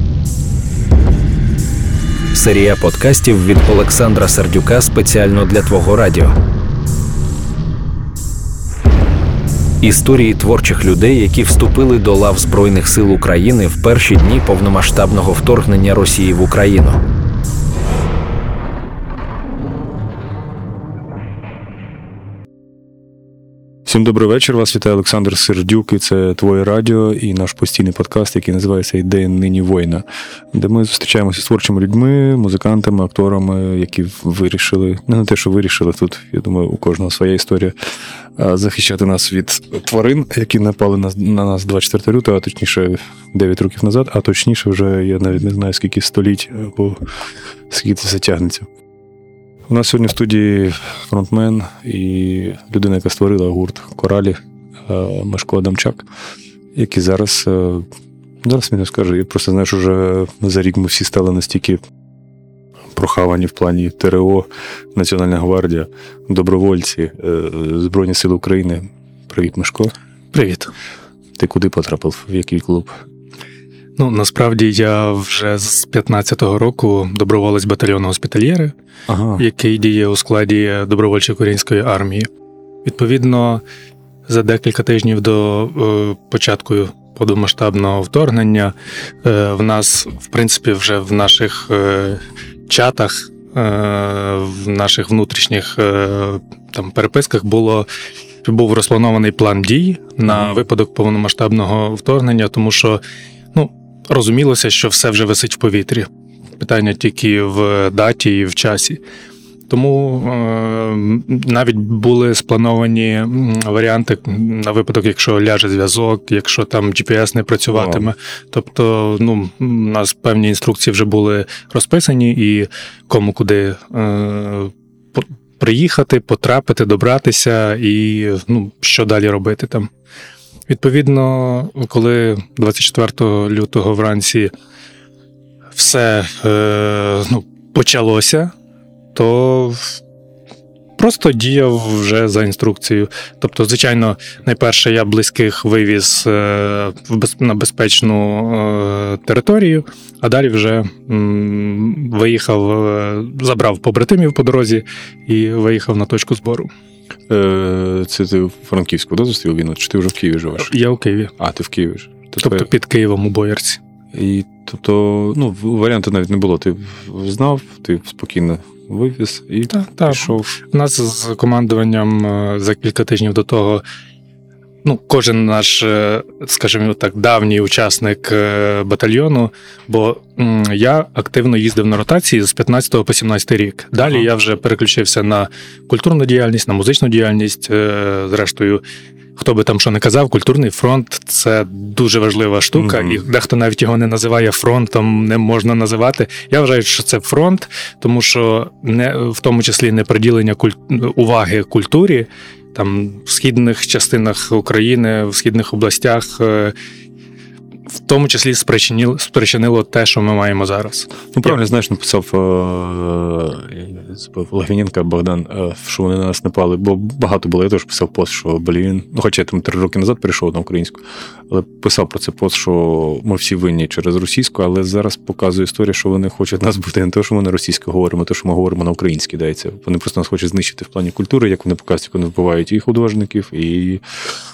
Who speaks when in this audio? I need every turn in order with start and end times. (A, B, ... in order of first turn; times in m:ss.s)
0:02.3-0:06.4 A
0:09.8-0:17.0 A
0:23.9-0:37.8 B
0:38.4-0:47.0 B
0:47.7-0:48.7 B
0:49.7-0:56.1 B
0:56.8-0:57.9 B
0:58.4-1:01.8 B
1:02.9-1:09.9 B
1:10.3-1:10.7 C
1:11.4-1:13.0 B
1:14.0-1:18.7 C
1:19.1-1:19.4 B
1:19.4-1:22.3 C
1:22.8-1:23.6 C
1:24.3-1:37.9 C
1:38.4-1:43.0 C
1:40.3-1:40.5 B
1:43.5-1:46.1 C
1:46.6-1:49.0 C
1:49.7-2:09.9 C
1:57.7-1:58.1 B
2:10.7-2:14.5 C
2:15.8-2:18.5 C
2:19.1-2:20.0 C
2:21.0-2:36.7 C
2:37.3-2:40.7 B
2:40.6-2:41.3 C
2:41.4-2:42.7 B
2:42.4-2:43.8 C
2:44.1-2:50.5 B
2:49.7-2:53.8 C
2:54.8-3:08.8 C
3:09.4-3:26.7 C
3:12.8-3:13.2 B
3:27.9-3:31.6 C
3:31.3-3:54.3 B